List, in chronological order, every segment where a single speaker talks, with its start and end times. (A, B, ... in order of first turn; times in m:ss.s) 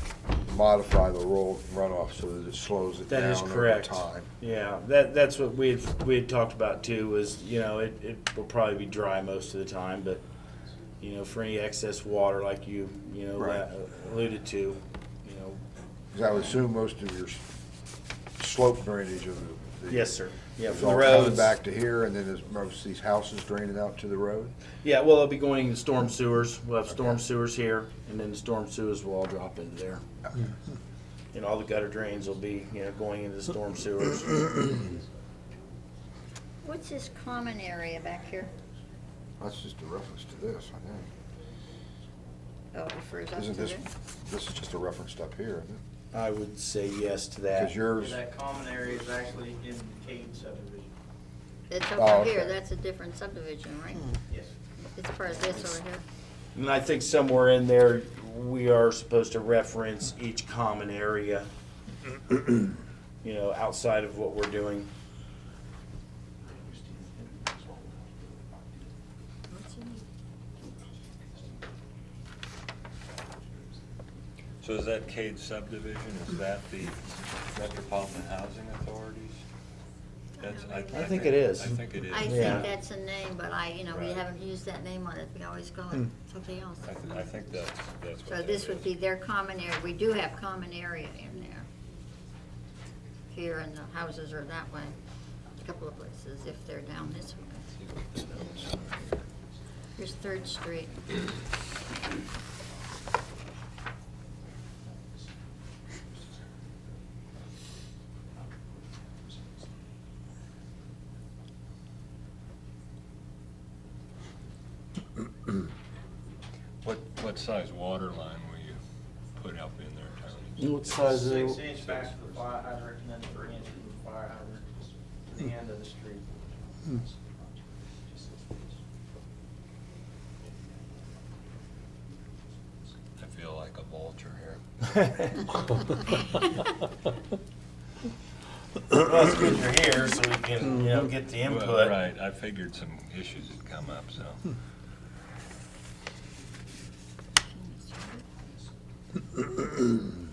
0:00.4-0:04.3 A
0:03.1-0:10.2 B
0:11.0-0:15.6 B
0:13.4-0:13.6 A
0:16.1-0:17.4 A
0:18.4-0:24.6 A
0:19.9-0:21.6 B
0:24.8-0:30.0 B
0:26.9-0:27.2 A
0:31.3-0:34.8 B
0:36.6-0:38.5 C
0:39.4-0:41.1 A
0:42.7-0:43.8 C
0:43.4-0:45.8 A
0:46.1-0:47.7 B
0:47.5-0:48.2 A
0:48.0-0:50.9 D
0:51.7-0:54.2 C
0:52.0-0:52.6 A
0:55.0-0:56.0 C
0:56.6-1:01.5 B
1:03.2-1:04.9 B
1:09.5-1:10.0 C
1:14.6-1:19.4 E
1:20.4-1:21.2 C
1:20.4-1:22.7 E
1:20.9-1:22.7 B
1:22.1-1:27.3 C
1:23.9-1:24.2 E
1:26.8-1:28.9 E
1:28.3-1:31.7 C
1:33.3-1:35.0 C
1:35.6-1:37.7 C
1:37.7-1:39.2 E
1:40.0-1:41.0 C
1:56.8-1:58.8 E
1:59.4-2:02.4 E
2:00.6-2:01.8 B
2:01.2-2:04.6 D
2:05.3-2:05.8 B
2:05.6-2:06.2 D
2:13.2-2:15.4 E
2:18.9-2:22.0 B
2:21.4-2:24.5 E
2:27.5-2:28.2 C